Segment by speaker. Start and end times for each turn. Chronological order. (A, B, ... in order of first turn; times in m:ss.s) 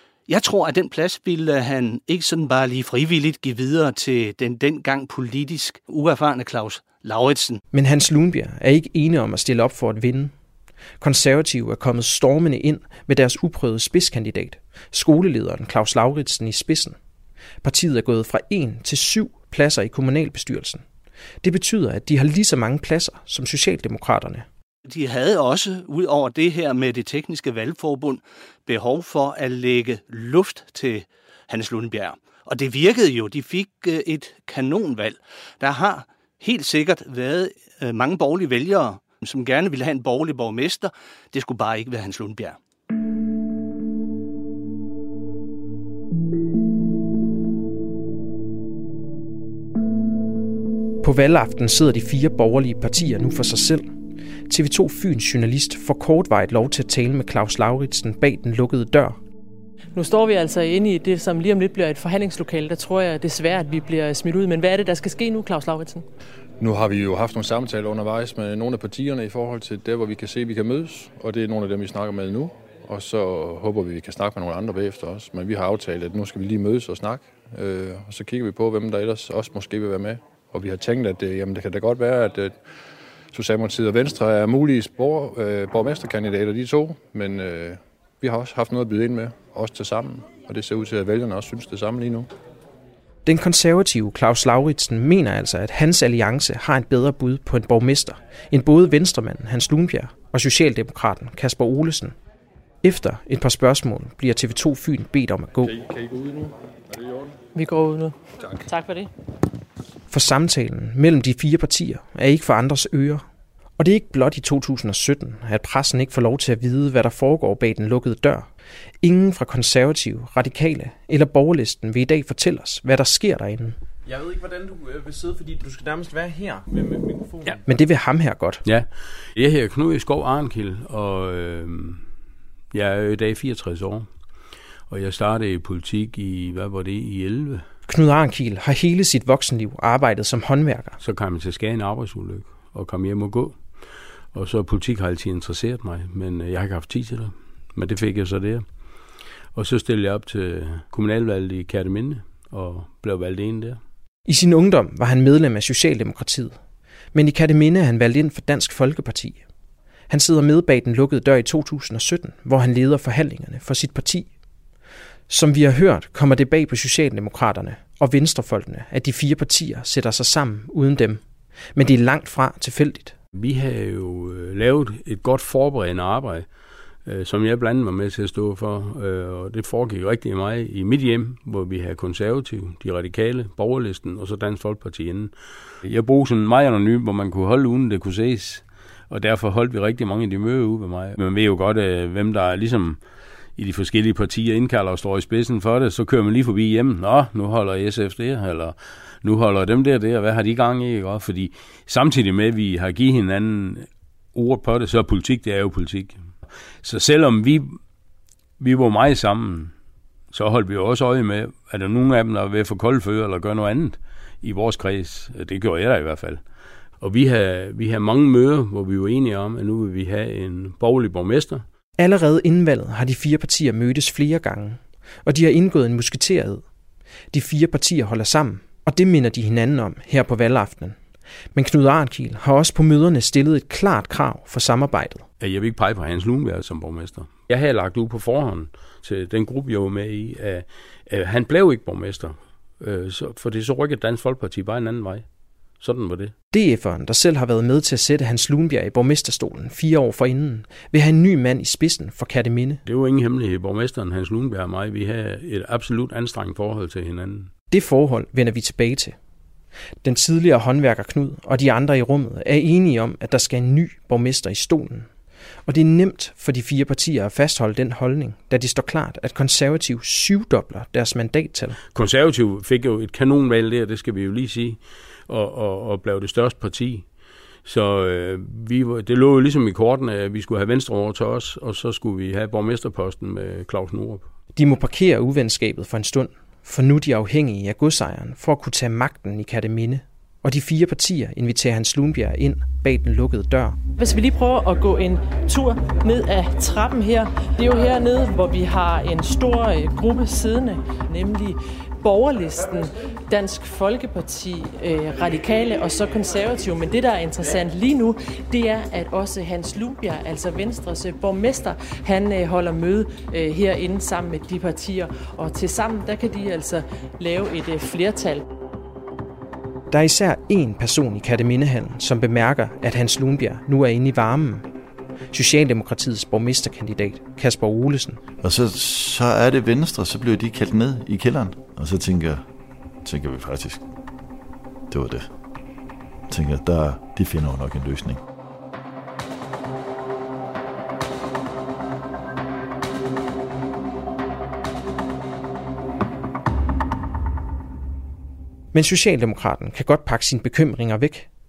0:00.3-0:07.6 A
0:07.7-0:10.3 B
0:11.0-0:17.0 B
0:17.6-0:20.8 B
0:21.4-0:24.4 B
0:24.8-0:42.6 A
0:51.0-0:53.9 B
0:54.5-0:59.2 B
0:59.9-1:06.0 C
1:06.6-1:22.6 D
1:23.3-1:32.3 D
1:33.2-1:42.1 B
1:42.8-1:45.7 B
1:45.6-1:47.4 D
1:47.5-1:49.1 C
1:50.1-1:53.2 B
1:53.8-1:58.5 B
1:59.0-2:03.8 B
2:04.0-2:07.6 E
2:07.6-2:08.6 B
2:08.6-2:12.0 F
2:12.7-2:14.1 F
2:14.9-2:17.6 F
2:17.9-2:21.0 B
2:21.0-2:23.8 F
2:24.3-2:28.6 F
2:29.5-2:33.8 F
2:34.3-2:36.6 B
2:37.1-2:39.4 B
2:40.1-2:44.3 B
2:45.3-2:51.2 B
2:51.8-2:53.1 B
2:53.3-2:56.5 F
2:57.0-3:13.0 F
3:13.6-3:26.3 F
3:26.8-3:27.8 F
3:28.6-3:29.7 F
3:30.3-3:36.4 F
3:37.0-3:41.6 F
3:42.0-3:46.6 B
3:47.3-3:51.0 B
3:51.5-3:55.2 B
3:55.4-4:05.2 F
4:05.8-4:06.3 F
4:06.5-4:12.8 B
4:12.8-4:17.5 F
4:17.7-4:19.2 B
4:20.0-4:25.1 B
4:25.7-4:31.8 B
4:31.9-4:37.1 F
4:37.6-4:44.3 F
4:44.6-4:53.8 B
4:54.0-5:18.4 C
5:19.9-5:24.7 B
5:25.3-5:28.2 B
5:28.4-5:32.4 G
5:33.0-5:33.8 G
5:34.9-5:35.3 G
5:36.3-5:38.2 G
5:48.7-5:51.3 B